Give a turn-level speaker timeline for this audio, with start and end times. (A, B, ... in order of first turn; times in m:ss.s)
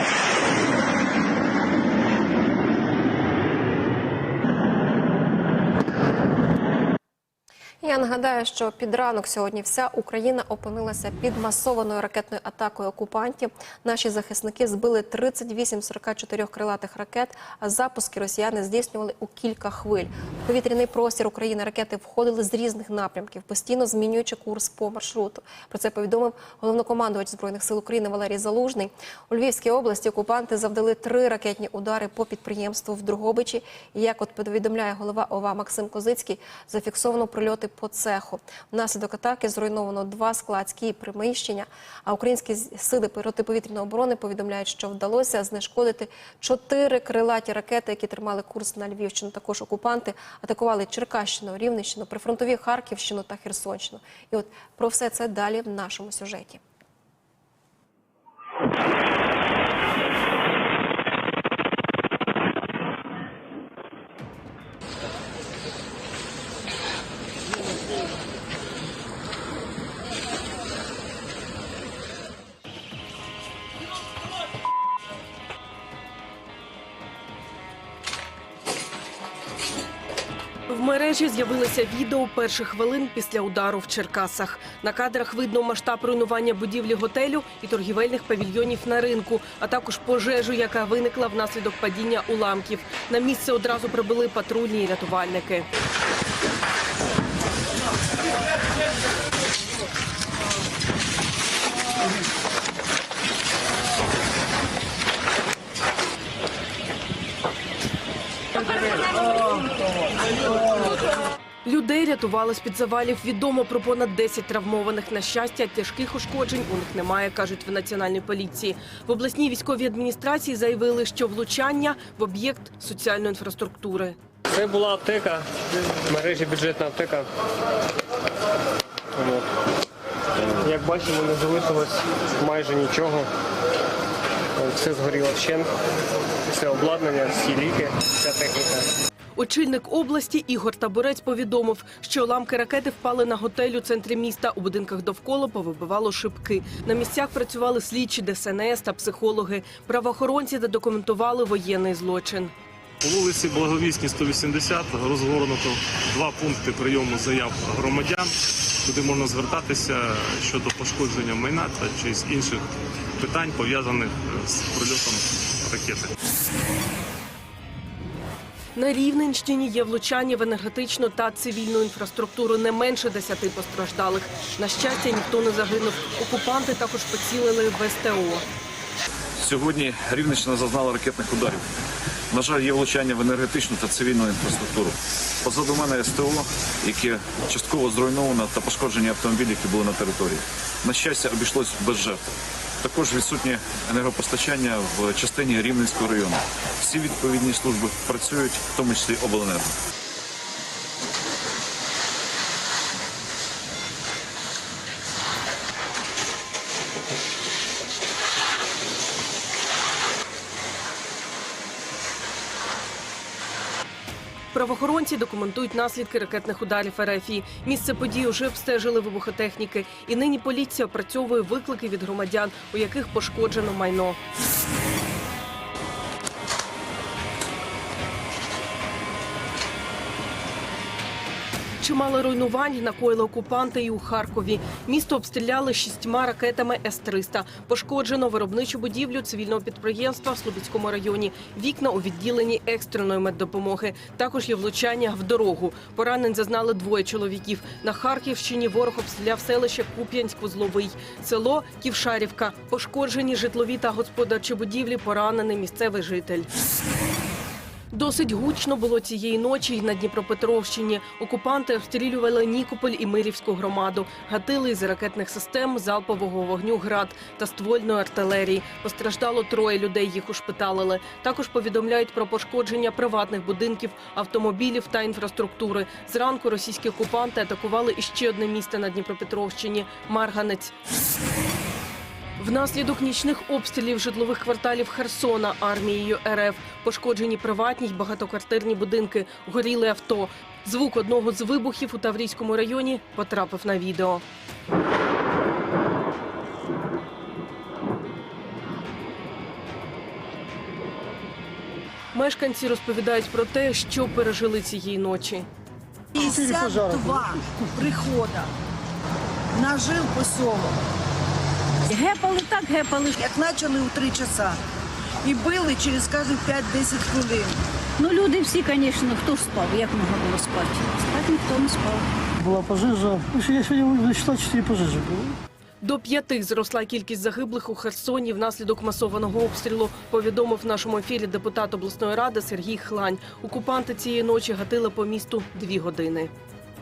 0:07.8-0:56.6 A
1:20.7-1:35.7 B
1:51.6-2:04.2 B
2:04.5-2:05.4 C
2:06.1-2:07.3 C
2:09.2-2:09.5 C
2:10.5-2:13.3 C
2:14.6-2:15.7 C
2:16.5-2:18.9 C
2:19.4-2:32.5 B
2:33.0-2:38.3 D
2:38.8-2:42.7 D
2:43.2-2:46.1 D
2:48.8-2:58.4 B
2:59.4-3:01.6 E
3:02.3-3:12.2 E
3:12.8-3:19.7 E
3:34.5-3:44.2 B
3:51.8-4:16.5 B
4:17.9-4:40.7 B
4:42.4-4:54.2 B
5:02.1-5:05.5 B
5:06.1-5:08.5 F
5:09.5-5:10.8 F
5:11.9-5:13.2 G
5:13.2-5:14.6 F
5:15.2-5:17.6 F
5:18.0-5:22.0 G
5:22.4-5:25.4 H
5:25.8-5:36.3 B